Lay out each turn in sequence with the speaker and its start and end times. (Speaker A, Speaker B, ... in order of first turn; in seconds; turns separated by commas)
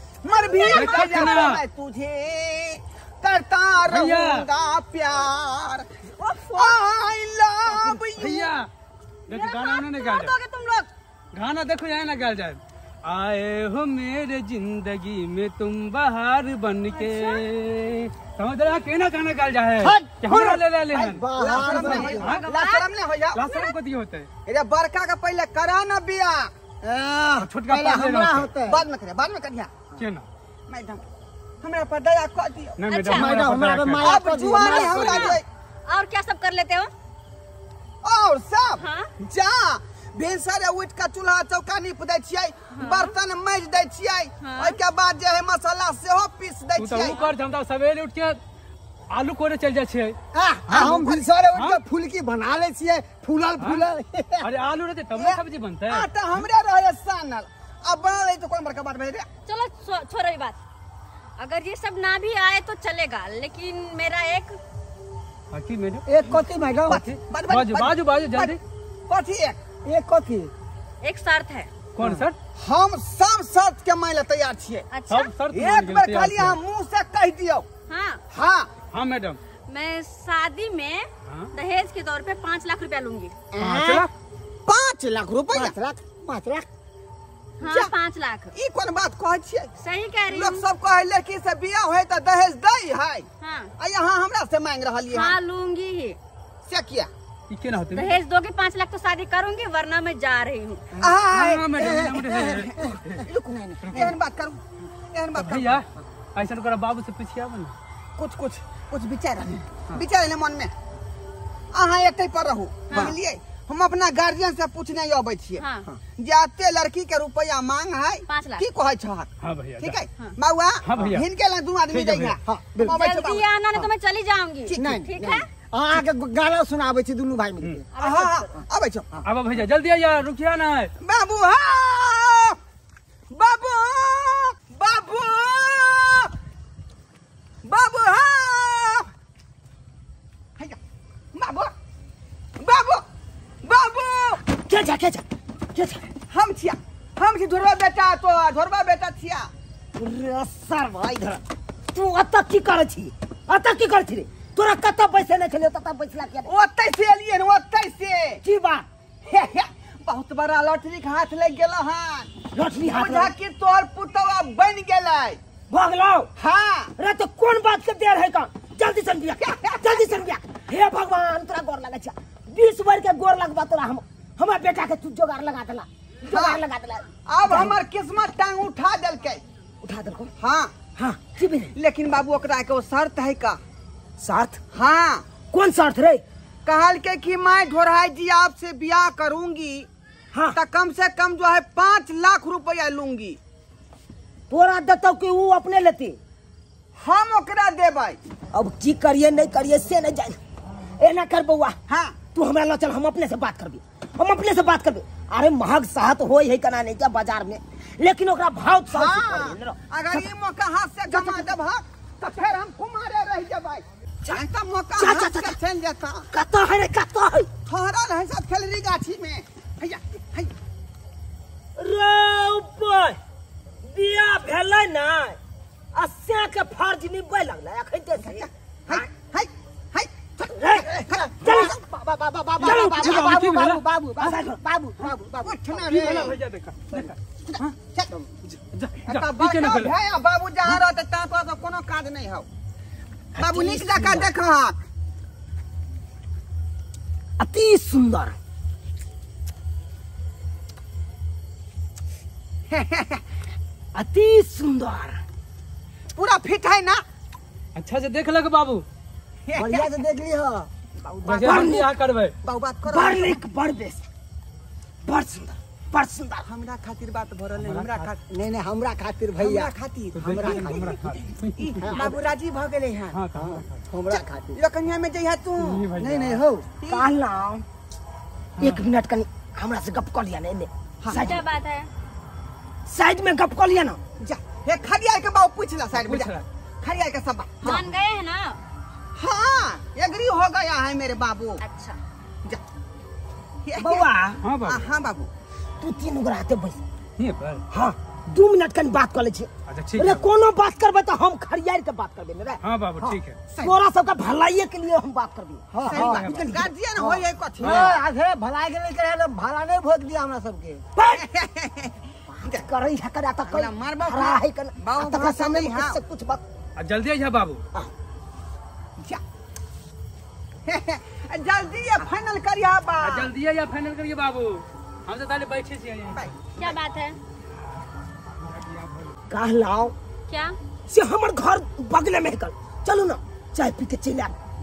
Speaker A: 0.2-5.9, Speaker B: 0.2-1.4, Speaker C: 0.6-1.6, Speaker C: 3.8-4.5, Speaker B: 6.2-6.9, Speaker A: 6.5-8.5, Speaker C: 7.7-8.7, Speaker C: 9.3-10.3, Speaker B: 9.3-10.9, Speaker C: 11.3-22.4, Speaker B: 16.9-17.4, Speaker D: 19.8-20.6, Speaker A: 20.4-23.4, Speaker D: 21.1-22.4, Speaker B: 22.0-23.8, Speaker C: 23.3-24.3, Speaker A: 24.4-26.5, Speaker D: 26.8-28.8, Speaker C: 27.4-28.5, Speaker A: 28.6-29.8, Speaker C: 29.9-30.2, Speaker A: 30.7-31.0, Speaker A: 31.6-32.8, Speaker C: 32.8-34.1, Speaker B: 32.9-33.5, Speaker D: 33.1-35.3, Speaker A: 34.0-35.4, Speaker B: 34.4-36.9, Speaker A: 38.0-47.2, Speaker B: 38.8-39.1, Speaker B: 42.7-43.1, Speaker B: 44.4-44.8, Speaker C: 46.8-48.4, Speaker B: 47.0-47.3, Speaker C: 49.1-50.1, Speaker D: 50.3-54.5, Speaker A: 50.7-51.2, Speaker C: 51.5-51.8, Speaker C: 53.6-53.9, Speaker C: 54.4-56.4, Speaker A: 55.1-59.3, Speaker B: 59.5-60.6, Speaker B: 61.4-64.6, Speaker C: 65.5-66.0, Speaker D: 66.0-67.0, Speaker C: 66.9-68.6, Speaker A: 66.9-69.6, Speaker D: 69.8-70.5, Speaker B: 71.0-71.7, Speaker C: 71.9-72.4, Speaker A: 72.5-74.9, Speaker B: 74.9-75.3, Speaker C: 75.1-76.6, Speaker A: 75.5-77.7, Speaker B: 77.9-78.2, Speaker A: 78.3-78.8, Speaker C: 78.9-79.4, Speaker B: 79.7-83.4, Speaker D: 83.5-84.1, Speaker C: 83.6-84.1, Speaker A: 84.7-85.8, Speaker D: 85.5-86.7, Speaker B: 87.6-88.5, Speaker A: 87.6-87.9, Speaker A: 88.5-89.7, Speaker B: 89.8-90.6, Speaker A: 90.3-93.3, Speaker B: 93.4-93.7, Speaker A: 93.8-95.3, Speaker B: 95.1-96.2, Speaker A: 96.7-97.1, Speaker C: 97.5-98.2, Speaker B: 97.9-100.8, Speaker A: 101.0-102.5, Speaker C: 101.3-103.2, Speaker D: 101.8-104.1, Speaker C: 103.8-104.2, Speaker A: 103.9-105.8, Speaker C: 105.3-107.8, Speaker A: 108.2-110.7, Speaker A: 111.7-115.6, Speaker B: 112.9-113.1, Speaker B: 115.6-115.9, Speaker A: 116.2-123.5, Speaker B: 118.3-118.6, Speaker C: 119.4-120.0, Speaker C: 120.8-121.2, Speaker C: 121.9-122.4, Speaker D: 122.4-122.9, Speaker B: 122.8-125.5, Speaker A: 124.7-124.9, Speaker D: 124.8-127.8, Speaker B: 127.9-128.5, Speaker A: 128.0-129.1, Speaker C: 129.2-130.9, Speaker A: 131.0-132.6, Speaker A: 133.3-136.3, Speaker A: 137.6-139.1, Speaker A: 141.3-141.7, Speaker A: 142.6-143.0, Speaker A: 143.6-144.4, Speaker E: 144.5-146.0, Speaker A: 146.3-149.5, Speaker E: 149.9-151.4, Speaker E: 151.9-156.5, Speaker A: 156.4-158.4, Speaker E: 158.4-158.9, Speaker A: 159.2-162.3, Speaker E: 162.5-163.3, Speaker A: 162.9-165.4, Speaker E: 165.7-166.3, Speaker A: 166.4-166.9, Speaker E: 167.0-177.8, Speaker A: 169.4-170.0, Speaker A: 176.3-176.6, Speaker A: 177.2-179.4, Speaker E: 179.8-180.3, Speaker A: 180.4-180.7, Speaker E: 181.0-181.7, Speaker A: 181.7-183.6, Speaker E: 184.2-184.6, Speaker A: 184.7-185.2, Speaker E: 185.5-186.2, Speaker A: 186.7-189.9, Speaker A: 190.5-193.4, Speaker E: 194.5-196.2, Speaker A: 197.0-198.2, Speaker E: 198.5-200.4, Speaker E: 201.0-201.8, Speaker A: 201.9-202.2, Speaker E: 202.3-210.2, Speaker A: 208.9-216.3, Speaker E: 211.1-211.5, Speaker E: 214.9-215.6, Speaker E: 216.3-217.5, Speaker A: 217.6-220.5, Speaker E: 221.8-223.2, Speaker E: 223.8-225.4, Speaker E: 225.9-229.1, Speaker A: 228.2-231.8, Speaker E: 230.4-230.9, Speaker D: 231.1-236.3, Speaker E: 231.4-231.8, Speaker C: 232.6-233.8, Speaker E: 232.6-233.4, Speaker E: 234.2-235.0, Speaker A: 235.4-236.3, Speaker C: 235.8-237.8, Speaker A: 237.8-238.1, Speaker C: 238.4-239.9, Speaker A: 239.0-242.5, Speaker E: 243.3-244.3, Speaker A: 243.4-244.8, Speaker E: 247.4-248.4, Speaker A: 252.7-253.2, Speaker E: 253.9-255.2, Speaker A: 256.1-257.0, Speaker C: 257.8-258.8, Speaker D: 259.6-260.7, Speaker A: 261.0-261.8, Speaker C: 261.2-262.4, Speaker E: 261.4-261.9, Speaker A: 262.4-263.4, Speaker E: 262.9-264.0, Speaker E: 265.0-266.4, Speaker A: 266.4-268.2, Speaker C: 267.5-268.1, Speaker D: 268.3-269.7, Speaker A: 269.4-273.2, Speaker C: 270.1-272.0, Speaker D: 270.2-270.8, Speaker D: 271.8-272.2, Speaker C: 273.1-273.8, Speaker D: 273.3-274.6, Speaker A: 274.1-275.9, Speaker C: 275.6-276.4, Speaker D: 275.9-276.6, Speaker A: 276.8-277.1, Speaker E: 276.9-277.6, Speaker E: 278.6-281.4, Speaker A: 281.0-281.3, Speaker B: 281.1-281.9, Speaker E: 282.9-284.0, Speaker A: 284.2-287.9, Speaker C: 285.9-286.4, Speaker B: 287.6-288.6, Speaker A: 289.1-291.6, Speaker B: 291.6-292.0, Speaker A: 293.6-294.1, Speaker E: 293.8-294.4, Speaker C: 294.4-294.8, Speaker A: 294.6-295.3, Speaker E: 295.8-296.8, Speaker C: 297.2-297.6, Speaker E: 297.7-302.6, Speaker C: 299.7-300.2, Speaker C: 302.6-303.4, Speaker D: 303.0-303.7, Speaker E: 303.6-306.7, Speaker D: 305.7-306.3, Speaker A: 305.8-308.0, Speaker C: 306.0-306.6, Speaker D: 307.0-310.8, Speaker E: 310.9-311.2, Speaker A: 311.1-312.6, Speaker E: 312.3-316.4, Speaker A: 313.5-316.0, Speaker C: 316.8-317.6, Speaker A: 320.6-323.3, Speaker C: 323.0-326.2, Speaker A: 326.1-326.8, Speaker B: 326.6-327.2, Speaker C: 328.4-329.1, Speaker E: 329.3-329.9, Speaker B: 330.3-330.6, Speaker E: 330.9-334.3